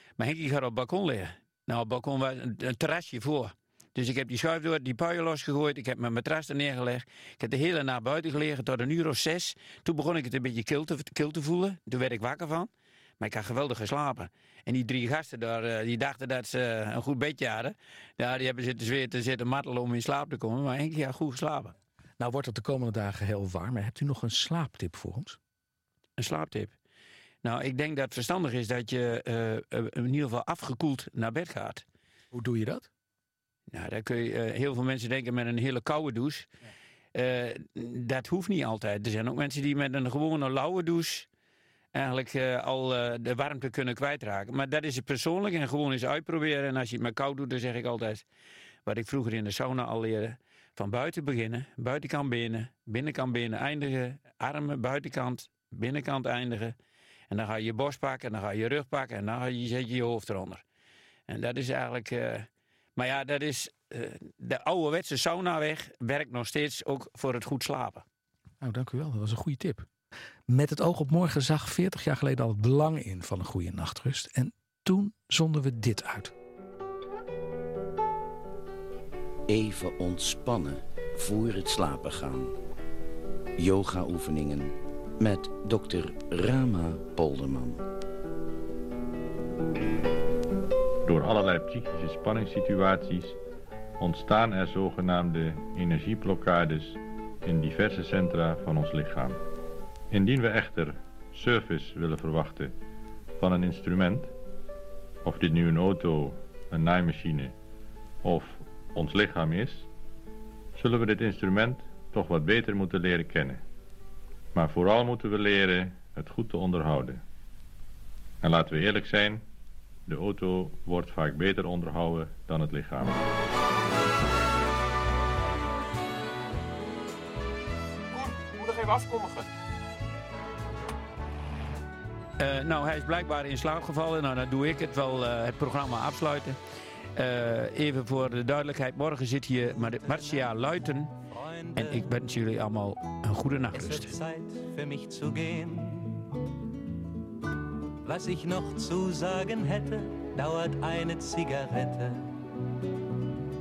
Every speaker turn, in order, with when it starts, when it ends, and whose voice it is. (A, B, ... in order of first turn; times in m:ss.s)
0:00.2-0:21.7 A
0:22.2-0:25.4 B
0:26.2-0:26.7 A
0:27.4-0:31.8 A
0:32.3-0:32.9 B
0:33.7-0:36.5 A
0:37.1-0:41.3 A
0:41.9-0:48.2 A
0:48.8-0:56.8 A
0:57.3-1:00.6 A
1:01.3-1:08.0 A
1:08.6-1:09.8 B
1:10.5-1:16.3 B
1:19.5-1:22.5 C
1:23.6-1:27.8 C
1:31.0-1:33.4 D
1:34.0-1:39.4 D
1:40.1-1:42.7 D
1:43.4-1:44.3 D
1:45.2-1:47.5 D
1:48.2-1:49.8 D
1:50.8-1:53.6 D
1:54.5-1:57.2 D
1:58.4-1:59.4 D
2:00.1-2:03.2 D
2:08.7-2:09.2 B
2:12.4-2:16.6 A
2:17.2-2:21.1 A
2:19.7-2:20.6 E
2:21.3-2:22.1 E
2:21.8-2:24.1 A
2:23.7-2:26.3 E
2:28.0-2:32.3 E